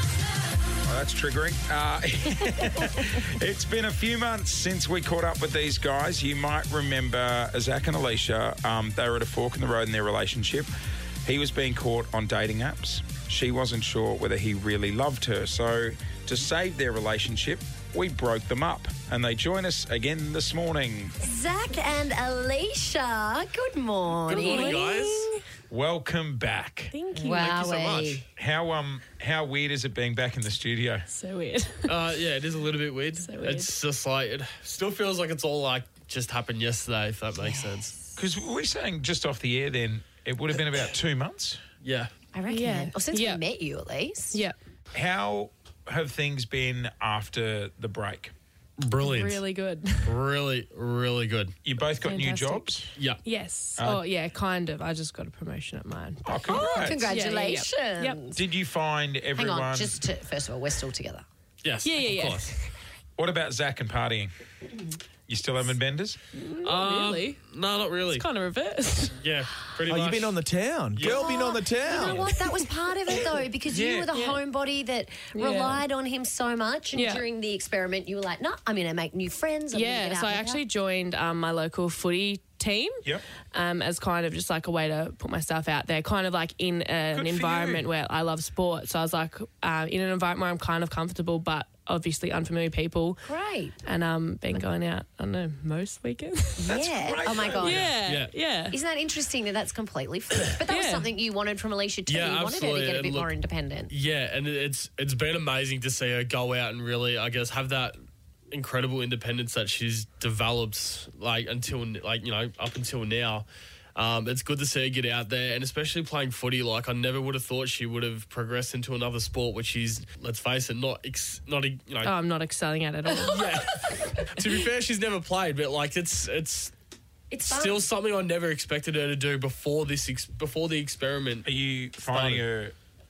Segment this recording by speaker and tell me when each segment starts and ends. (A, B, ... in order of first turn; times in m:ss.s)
0:00.9-0:10.7 A
0:11.2-0:21.1 A
0:21.2-0:24.8 B
0:24.3-0:25.3 C
0:24.3-0:25.4 D
0:25.7-0:31.1 A
0:26.9-0:27.7 D
0:27.1-0:28.2 B
0:31.1-0:32.0 D
0:31.9-0:38.0 C
0:33.2-0:33.7 D
0:37.4-0:37.9 B
0:38.2-0:41.6 A
0:41.8-0:42.1 C
0:42.3-0:44.4 B
0:42.5-0:43.4 D
0:44.9-0:48.3 A
0:48.8-0:49.4 C
0:49.0-0:50.1 D
0:50.0-0:51.6 C
0:51.6-0:52.9 A
0:52.0-0:52.7 D
0:53.0-0:53.2 C
0:53.2-0:58.2 D
0:56.2-0:57.1 A
0:56.4-0:58.4 B
0:58.3-1:00.0 A
0:59.4-1:01.2 B
1:01.6-1:02.5 C
1:01.8-1:02.7 D
1:03.2-1:04.3 A
1:05.3-1:06.2 A
1:06.3-1:07.4 D
1:06.6-1:08.2 C
1:08.1-1:09.2 D
1:09.2-1:10.4 C
1:09.9-1:12.3 E
1:11.0-1:11.3 C
1:11.0-1:20.6 B
1:13.7-1:14.1 A
1:14.1-1:14.4 D
1:15.4-1:15.8 D
1:16.9-1:17.2 D
1:19.7-1:33.2 D
1:27.1-1:27.8 A
1:33.3-1:33.8 B
1:33.8-1:36.8 D
1:36.6-1:37.9 B
1:36.7-1:37.9 A
1:37.6-1:38.8 D
1:38.0-1:38.3 C
1:38.7-1:43.9 B
1:40.7-1:41.1 D
1:42.1-1:43.3 C
1:43.9-1:48.0 C
1:48.5-2:02.1 C
2:02.0-2:03.4 D
2:03.2-2:06.7 C
2:07.3-2:07.9 B
2:07.4-2:11.5 C
2:11.4-2:12.8 A
2:12.1-2:12.5 C